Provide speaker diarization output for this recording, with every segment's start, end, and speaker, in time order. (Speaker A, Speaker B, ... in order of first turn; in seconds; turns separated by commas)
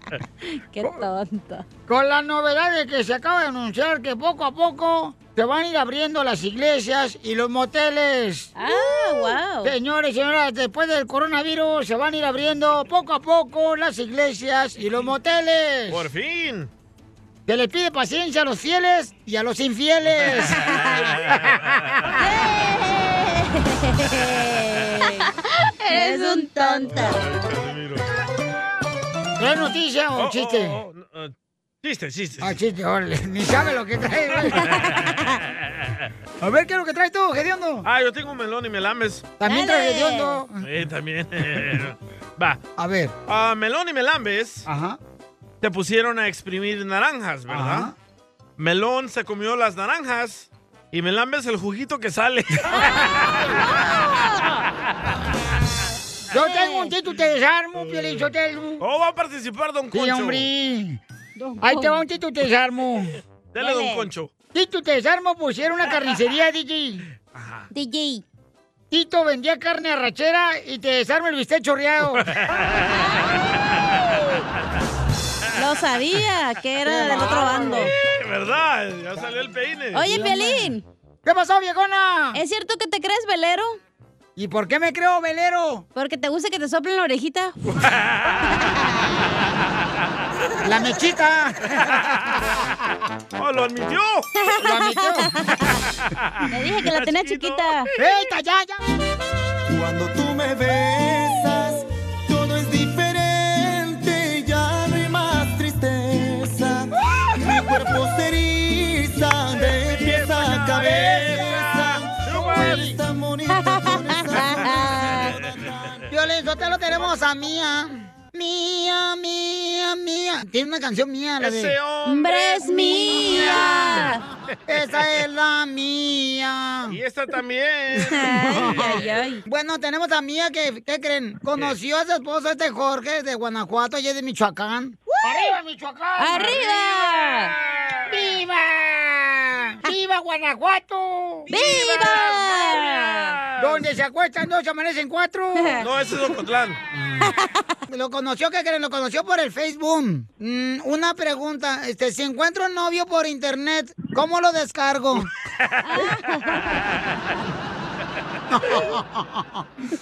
Speaker A: 0.5-1.7, Speaker B: 1.9-16.0, Speaker A: 8.6-9.7, Speaker C: 15.9-16.7, Speaker B: 17.5-20.6, Speaker C: 20.2-22.2, Speaker A: 20.7-21.1, Speaker A: 22.2-27.2, Speaker B: 26.0-27.0, Speaker C: 26.9-28.0, Speaker B: 29.4-30.8, Speaker C: 30.2-32.6, Speaker B: 32.4-34.7, Speaker A: 34.6-35.4, Speaker C: 34.6-36.1, Speaker B: 36.4-37.9, Speaker C: 37.8-39.3, Speaker B: 39.4-40.7, Speaker A: 39.4-40.4, Speaker C: 40.6-42.6, Speaker B: 42.8-43.1, Speaker C: 43.3-44.6, Speaker B: 44.7-45.0, Speaker C: 45.6-47.9, Speaker B: 47.5-47.9, Speaker C: 48.6-53.5, Speaker A: 53.5-54.6, Speaker A: 56.3-56.9, Speaker B: 56.3-58.8, Speaker C: 58.8-60.5, Speaker B: 59.9-61.0, Speaker A: 61.4-62.0, Speaker B: 61.6-63.2, Speaker C: 63.5-64.3, Speaker A: 63.6-64.1, Speaker B: 64.5-67.1, Speaker C: 67.3-67.7, Speaker A: 67.7-68.2, Speaker B: 68.9-72.2, Speaker C: 72.2-73.0, Speaker A: 75.5-77.9, Speaker B: 76.8-77.9, Speaker C: 77.9-80.1, Speaker A: 79.9-80.8, Speaker B: 80.1-80.7, Speaker B: 81.2-82.4, Speaker A: 82.3-83.8, Speaker B: 84.4-85.8, Speaker A: 86.0-87.7, Speaker C: 87.8-88.4, Speaker A: 88.5-88.8, Speaker B: 90.6-91.6, Speaker C: 93.4-94.3, Speaker A: 94.4-95.7, Speaker B: 94.6-95.3, Speaker C: 96.1-97.8, Speaker A: 96.5-97.9, Speaker B: 98.0-98.8, Speaker D: 100.8-101.7, Speaker D: 106.2-106.6, Speaker D: 107.6-111.5, Speaker C: 109.5-112.9, Speaker B: 110.8-111.3, Speaker B: 112.3-113.0, Speaker D: 113.0-113.4, Speaker A: 113.5-115.4, Speaker C: 114.3-115.9, Speaker B: 116.1-121.7, Speaker C: 121.4-124.0, Speaker A: 122.0-124.2, Speaker B: 124.7-127.0, Speaker C: 126.9-128.9, Speaker A: 128.1-129.4, Speaker B: 128.5-137.3, Speaker A: 135.1-135.5, Speaker A: 136.2-137.6, Speaker B: 138.1-141.5, Speaker A: 141.5-143.4, Speaker C: 141.5-143.9, Speaker B: 143.6-145.8, Speaker A: 145.6-145.8, Speaker C: 145.8-147.3, Speaker A: 147.2-147.6, Speaker B: 147.9-155.3, Speaker C: 155.7-156.1, Speaker A: 155.9-156.6, Speaker B: 158.5-159.6